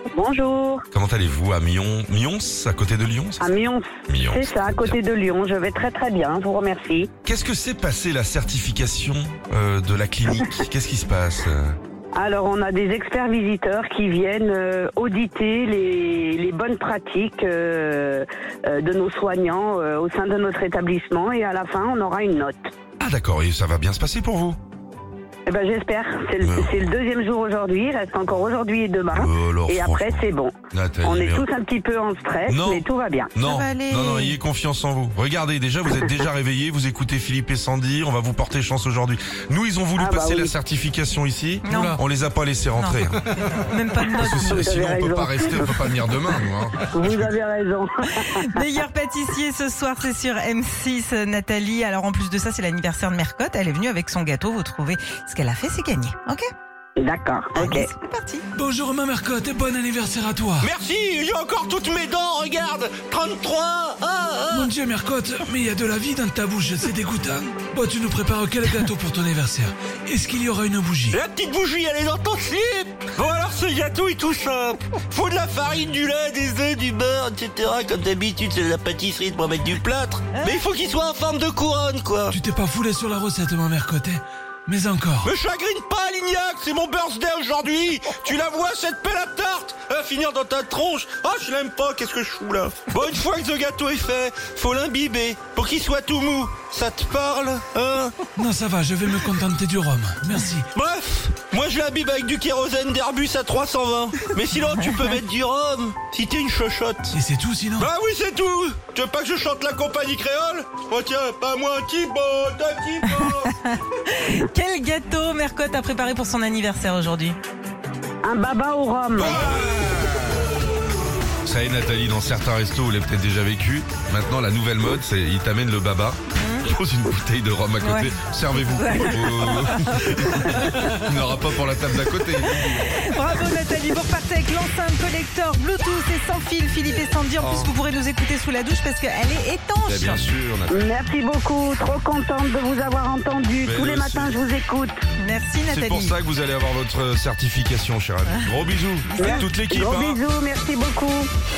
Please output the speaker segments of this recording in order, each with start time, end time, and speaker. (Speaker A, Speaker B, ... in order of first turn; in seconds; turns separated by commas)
Speaker A: 0.1-0.8, Speaker B: 0.9-3.5, Speaker A: 3.4-7.1, Speaker B: 4.1-5.0, Speaker B: 7.2-11.8, Speaker A: 12.1-22.7, Speaker B: 23.0-24.6, Speaker A: 25.5-33.3, Speaker B: 26.4-26.9, Speaker B: 29.1-31.4, Speaker B: 32.5-43.2, Speaker C: 33.4-34.4, Speaker A: 40.0-40.5, Speaker C: 41.6-42.0, Speaker D: 41.7-42.0, Speaker C: 42.8-44.7, Speaker B: 44.1-47.2, Speaker A: 44.3-45.8, Speaker A: 46.9-48.6, Speaker C: 48.3-56.4, Speaker A: 57.0-57.9, Speaker C: 57.6-58.5, Speaker D: 58.5-60.7, Speaker E: 60.6-64.7, Speaker D: 64.5-71.2, Speaker E: 71.1-82.4, Speaker D: 82.3-85.3, Speaker E: 85.2-98.2, Speaker D: 98.4-100.7, Speaker E: 100.7-107.2, Speaker D: 107.1-107.9, Speaker E: 107.8-113.5, Speaker C: 113.3-117.4, Speaker A: 118.2-119.5, Speaker B: 119.2-120.2, Speaker B: 121.4-133.0, Speaker C: 126.4-126.7, Speaker C: 127.8-130.9, Speaker C: 132.6-140.2, Speaker B: 137.4-137.7, Speaker B: 139.8-140.9, Speaker A: 140.7-145.0, Speaker B: 143.6-144.4, Speaker C: 145.2-146.2, Speaker B: 145.7-150.2, Speaker C: 149.1-149.5, Speaker A: 149.2-151.3